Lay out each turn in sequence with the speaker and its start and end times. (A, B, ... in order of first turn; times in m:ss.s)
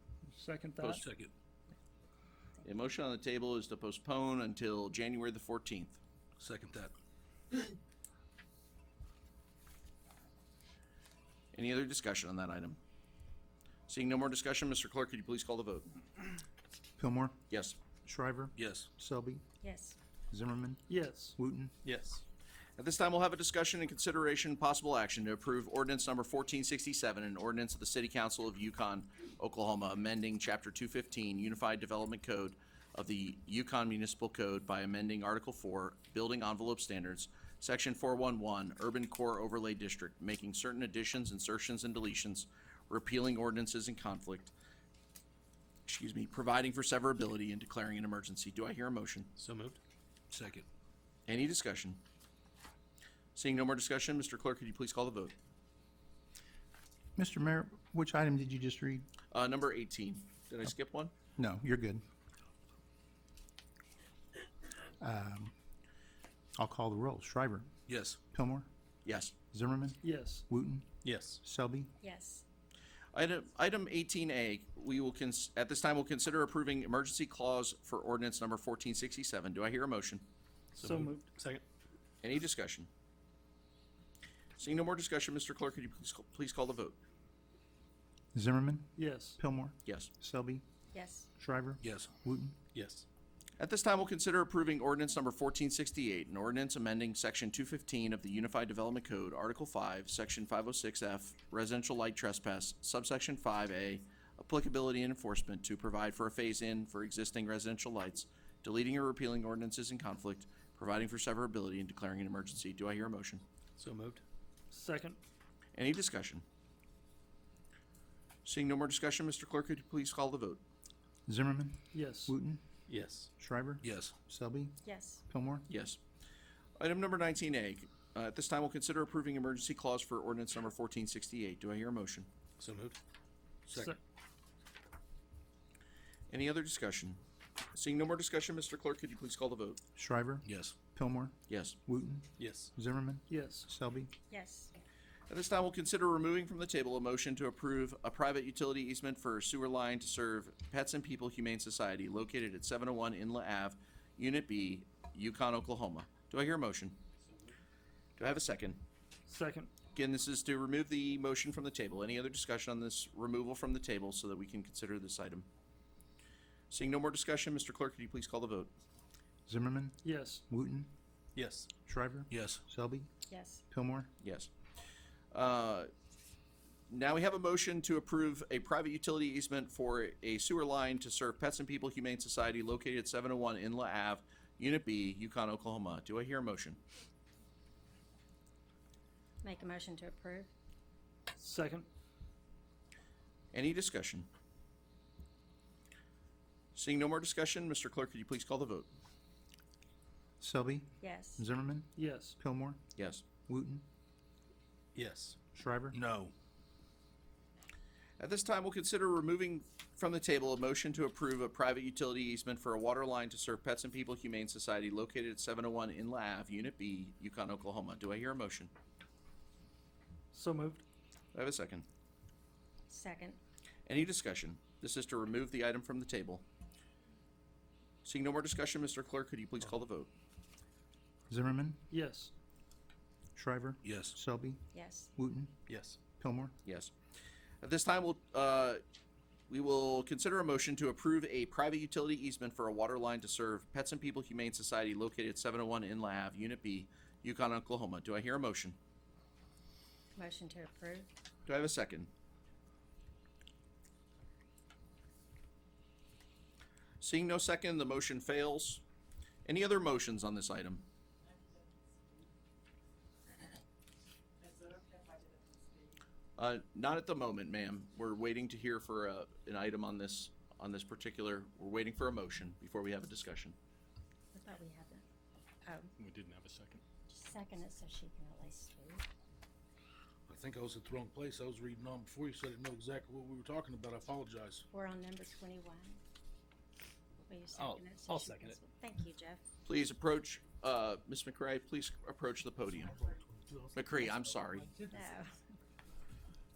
0:00.3-0:01.0 A
0:02.6-0:06.0 B
0:06.4-0:06.9 C
0:11.5-0:12.8 B
0:13.9-0:15.9 B
0:17.0-0:17.4 D
0:17.5-0:17.8 B
0:18.0-0:19.4 D
0:18.6-0:18.9 C
0:19.6-0:20.0 E
0:20.3-0:21.7 D
0:20.9-0:21.4 A
0:21.8-0:22.2 C
0:22.8-0:44.5 B
0:45.9-0:49.3 B
0:49.4-0:49.8 C
0:50.3-0:50.6 C
0:51.3-0:52.0 B
0:53.4-0:55.3 B
0:57.2-0:59.0 D
0:59.3-1:01.1 B
1:01.4-1:02.0 D
1:05.0-1:05.5 D
1:06.6-1:07.7 D
1:07.9-1:08.2 C
1:08.3-1:08.7 D
1:09.0-1:09.3 B
1:09.5-1:10.9 D
1:10.0-1:10.4 A
1:11.0-1:11.4 C
1:11.4-1:11.9 D
1:12.0-1:12.4 E
1:13.1-1:20.2 B
1:20.8-1:21.6 C
1:20.8-1:21.2 A
1:22.2-1:22.9 B
1:24.6-1:27.0 B
1:28.3-1:30.6 D
1:29.0-1:29.4 A
1:30.9-1:31.3 E
1:31.4-1:32.6 D
1:31.8-1:32.1 C
1:32.7-1:33.0 C
1:33.6-1:53.4 B
1:53.8-1:54.2 C
1:54.7-1:55.2 A
1:55.7-1:56.4 B
1:58.4-2:00.6 B
2:01.3-2:02.6 D
2:01.9-2:02.4 A
2:02.9-2:03.3 C
2:03.4-2:05.6 D
2:03.8-2:04.1 C
2:04.8-2:05.2 E
2:05.7-2:06.0 B
2:06.8-2:12.3 B
2:12.6-2:13.0 C
2:13.7-2:14.0 A
2:16.3-2:17.2 B
2:17.7-2:19.8 B
2:20.0-2:24.1 D
2:20.4-2:20.7 C
2:21.5-2:21.8 B
2:22.4-2:22.7 C
2:23.3-2:23.7 A
2:24.3-2:24.7 E
2:25.3-2:37.0 B
2:38.2-2:38.8 B
2:39.3-2:39.7 A
2:39.9-2:45.5 B
2:46.7-2:48.7 B
2:49.5-2:50.9 D
2:50.0-2:50.4 A
2:51.3-2:51.7 C
2:51.8-2:53.1 D
2:52.3-2:52.6 C
2:53.3-2:53.6 E
2:53.7-2:54.1 D
2:54.2-2:54.5 B
2:55.3-2:55.9 B
2:56.9-3:06.8 B
3:09.4-3:10.5 E
3:11.4-3:11.9 A
3:13.5-3:14.3 B
3:16.7-3:18.9 B
3:20.4-3:22.8 D
3:21.0-3:21.4 E
3:22.0-3:22.4 A
3:23.0-3:23.2 B
3:23.5-3:23.8 D
3:24.9-3:26.3 C
3:25.5-3:26.0 D
3:28.2-3:38.7 B
3:40.3-3:40.8 A
3:41.3-3:41.8 B
3:42.9-3:43.4 E
3:43.9-3:46.4 B
3:48.0-3:50.1 B
3:51.3-3:51.8 D
3:51.9-3:52.3 A
3:53.4-3:55.5 D
3:53.8-3:54.1 C
3:54.7-3:55.1 E
3:55.7-3:56.0 C
3:56.1-3:56.5 D
3:56.6-3:56.9 B
3:57.6-3:58.8 B
3:59.5-4:08.8 B
4:10.2-4:11.1 E
4:11.4-4:12.1 B
4:17.0-4:18.8 B
4:19.4-4:20.8 B
4:26.4-4:33.6 B
4:34.3-4:35.0 E
4:35.6-4:35.9 E
4:36.0-4:36.8 C
4:37.1-4:39.0 E
4:40.3-4:44.6 F
4:44.7-4:46.0 E
4:47.3-4:49.4 E
4:47.5-4:48.6 C
4:49.6-4:53.0 B
4:52.9-4:55.0 F
4:53.7-4:54.7 B
4:54.8-4:55.4 E